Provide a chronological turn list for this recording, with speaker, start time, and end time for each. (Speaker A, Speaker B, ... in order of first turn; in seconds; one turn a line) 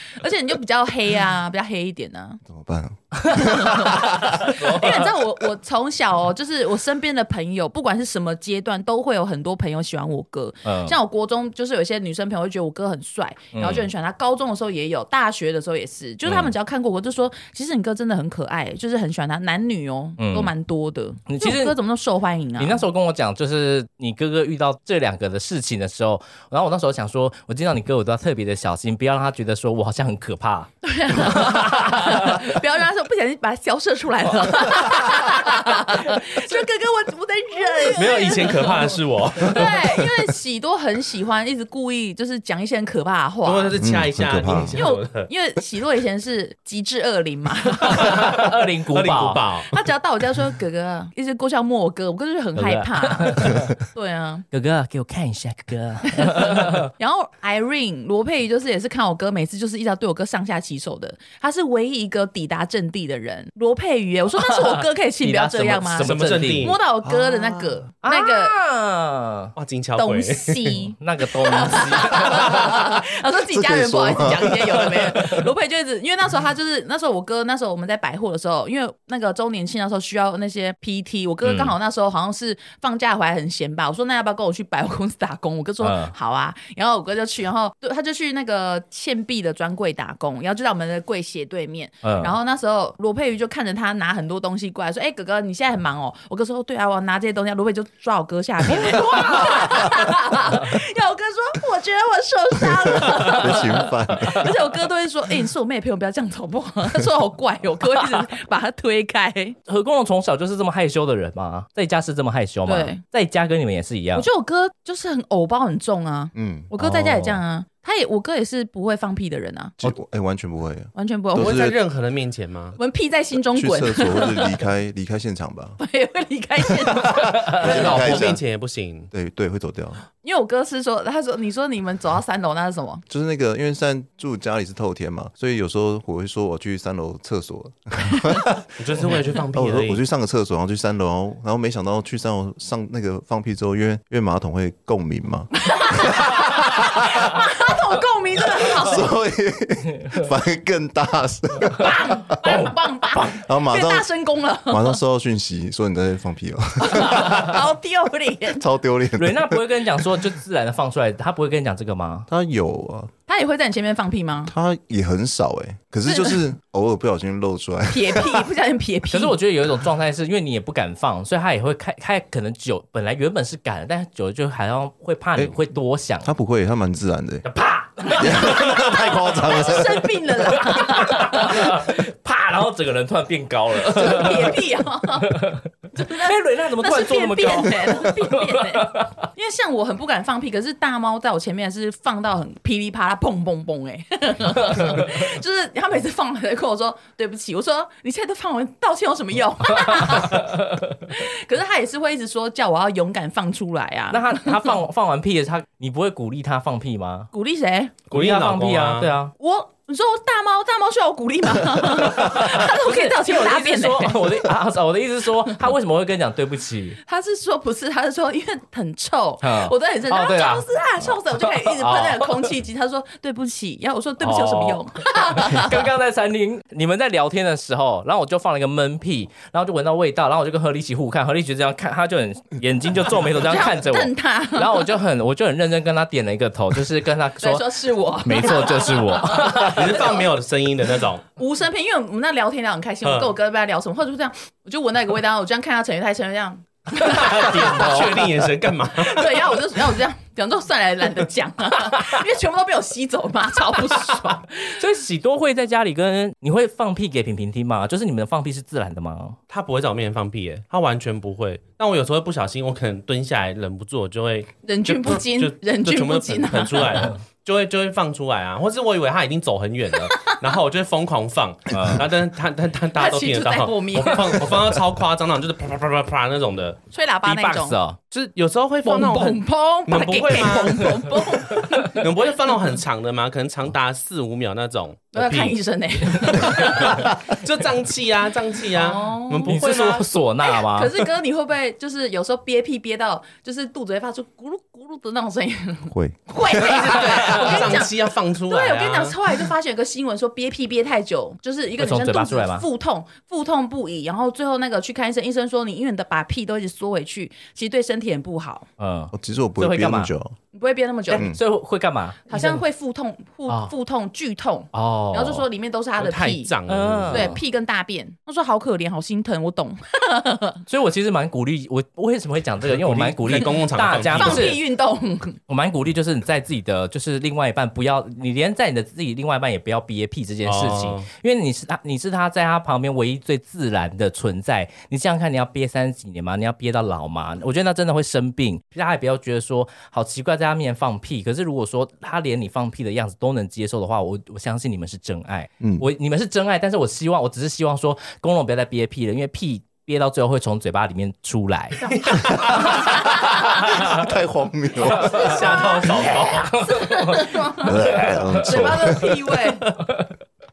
Speaker A: 0.1-2.4
Speaker B: 2.5-4.6
Speaker A: 3.3-22.8
Speaker C: 3.4-5.1
Speaker C: 10.6-10.9
Speaker C: 13.5-13.9
Speaker C: 16.2-16.5
Speaker C: 20.2-20.5
Speaker C: 21.3-21.8
Speaker C: 22.6-32.5
Speaker A: 30.8-43.8
Speaker C: 34.7-35.3
Speaker D: 37.6-40.1
Speaker D: 43.4-45.3
Speaker B: 43.8-44.8
Speaker A: 44.7-48.4
Speaker C: 47.9-49.4
Speaker D: 47.9-49.8
Speaker A: 49.7-54.5
Speaker C: 52.5-53.7
Speaker C: 54.5-56.9
Speaker A: 56.1-68.5
Speaker C: 64.4-66.8
Speaker D: 66.0-66.8
Speaker B: 67.0-67.8
Speaker C: 68.0-69.5
Speaker D: 69.5-70.8
Speaker A: 70.0-109.6
Speaker C: 71.0-72.9
Speaker B: 73.5-75.4
Speaker C: 81.5-81.7
Speaker C: 85.8-86.1
Speaker C: 92.0-92.3
Speaker C: 98.7-100.0
Speaker B: 102.8-104.5
Speaker C: 109.7-114.2
Speaker A: 112.7-113.0
Speaker A: 114.1-119.7
Speaker B: 116.3-117.4
Speaker B: 119.8-121.8
Speaker A: 120.9-121.7
Speaker D: 121.4-122.8
Speaker A: 122.8-124.6
Speaker B: 123.5-125.8
Speaker A: 125.8-128.2
Speaker B: 126.8-128.4
Speaker D: 127.5-129.1
Speaker B: 129.1-130.0
Speaker A: 130.2-133.0
Speaker B: 133.1-147.4
Speaker D: 138.8-140.0
Speaker A: 145.6-149.1
Speaker B: 148.6-152.5
Speaker A: 151.7-155.0
Speaker B: 153.2-154.1
Speaker B: 154.7-157.6
Speaker A: 156.8-158.6
Speaker B: 158.5-159.6
Speaker C: 159.2-162.3
Speaker B: 162.3-163.1
Speaker A: 163.3-164.5
Speaker B: 164.5-168.5
Speaker A: 166.1-166.4
Speaker A: 167.9-169.3
Speaker C: 169.1-176.3
Speaker B: 176.2-177.4
Speaker C: 177.4-179.8
Speaker A: 178.1-181.8
Speaker B: 178.2-180.1
Speaker C: 180.4-184.6
Speaker A: 183.8-185.4
Speaker C: 185.2-189.2
Speaker A: 185.9-204.8
Speaker C: 199.9-200.6
Speaker C: 204.1-207.3
Speaker A: 207.3-207.9
Speaker D: 208.1-209.1
Speaker C: 208.1-209.3
Speaker A: 209.4-214.5
Speaker C: 211.9-217.0
Speaker A: 217.0-225.9
Speaker C: 219.4-222.5
Speaker C: 224.2-240.0
Speaker A: 233.4-234.9
Speaker A: 237.4-240.2
Speaker D: 239.5-241.2
Speaker A: 241.4-248.1
Speaker D: 243.0-243.3
Speaker C: 247.0-248.2
Speaker D: 247.1-249.5
Speaker A: 249.0-254.7
Speaker C: 254.6-259.4
Speaker D: 259.5-276.8
Speaker A: 264.6-267.1
Speaker C: 271.7-272.1
Speaker A: 272.9-274.6
Speaker A: 276.9-277.8
Speaker C: 277.2-278.0
Speaker D: 278.1-285.6
Speaker A: 278.9-282.1
Speaker A: 285.1-287.1
Speaker D: 286.1-290.1
Speaker A: 288.7-289.7
Speaker C: 289.4-291.1
Speaker A: 290.4-308.7
Speaker B: 295.9-297.0
Speaker D: 296.6-299.2
Speaker C: 301.8-302.6
Speaker C: 308.8-310.1
Speaker B: 309.1-310.4
Speaker A: 310.5-311.2
Speaker C: 311.1-312.6
Speaker B: 311.1-311.4
Speaker A: 312.3-316.5
Speaker C: 313.5-313.7
Speaker C: 314.7-315.4
Speaker D: 316.0-317.4
Speaker C: 316.7-317.4
Speaker A: 317.1-320.6
Speaker C: 320.7-324.6
Speaker D: 322.7-324.6
Speaker A: 324.1-325.4
Speaker C: 325.5-351.9
Speaker D: 330.4-331.1
Speaker B: 345.6-345.8
Speaker D: 351.8-352.9
Speaker B: 352.6-355.4
Speaker C: 352.9-353.8
Speaker C: 354.8-359.0
Speaker D: 354.9-356.6
Speaker A: 355.2-359.7
Speaker B: 357.6-359.2
Speaker C: 359.8-360.1